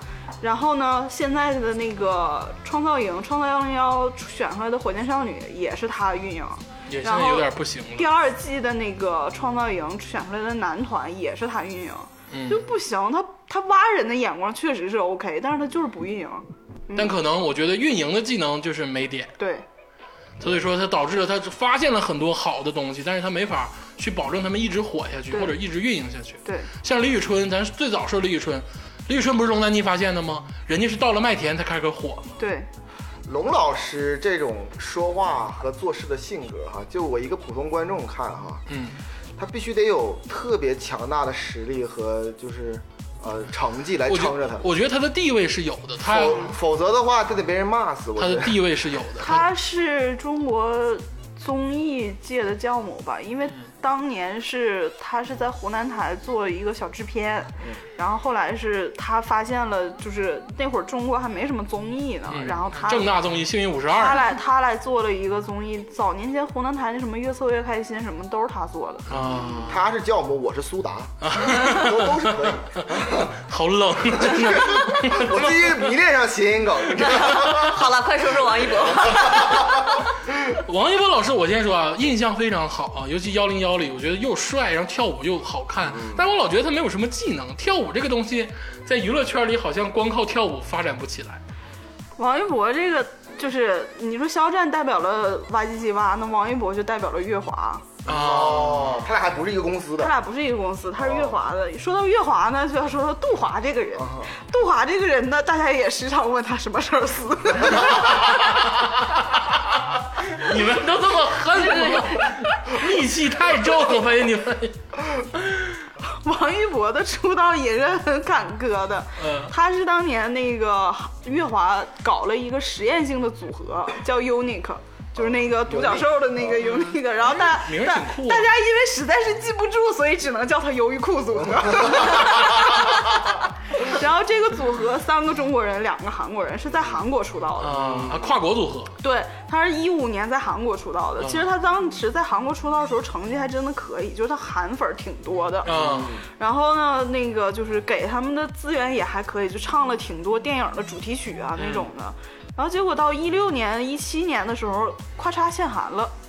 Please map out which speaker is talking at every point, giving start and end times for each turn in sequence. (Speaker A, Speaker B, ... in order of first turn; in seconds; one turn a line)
Speaker A: 0.4-17.1
Speaker B: 6.9-8.1
Speaker B: 12.3-12.7
Speaker B: 16.9-19.3
Speaker A: 19.4-19.6
Speaker B: 20.4-32.3
Speaker A: 26.4-26.7
Speaker A: 32.4-32.7
Speaker C: 33.3-38.6
Speaker B: 38.7-39.0
Speaker C: 39.4-44.7
Speaker B: 44.1-46.5
Speaker C: 46.0-48.6
Speaker B: 48.2-49.5
Speaker A: 49.2-63.1
Speaker B: 62.3-64.3
Speaker A: 63.9-69.0
Speaker B: 69.1-69.8
Speaker D: 69.2-69.7
Speaker C: 69.7-73.3
Speaker B: 71.2-75.7
Speaker C: 74.2-77.9
Speaker D: 77.0-80.0
Speaker B: 80.5-91.4
Speaker A: 92.2-97.9
Speaker B: 98.0-99.0
Speaker C: 98.1-100.1
Speaker A: 100.0-108.2
Speaker C: 101.0-101.3
Speaker C: 104.0-104.3
Speaker B: 110.3-114.8
Speaker D: 111.7-112.3
Speaker A: 116.0-133.1
Speaker B: 119.2-119.5
Speaker C: 125.7-126.4
Speaker B: 127.4-128.5
Speaker A: 133.7-137.8
Speaker B: 137.6-138.9
Speaker A: 139.0-145.7
Speaker B: 141.2-141.4
Speaker B: 145.7-146.2
Speaker C: 145.7-146.2
Speaker A: 146.4-156.1
Speaker B: 151.6-151.9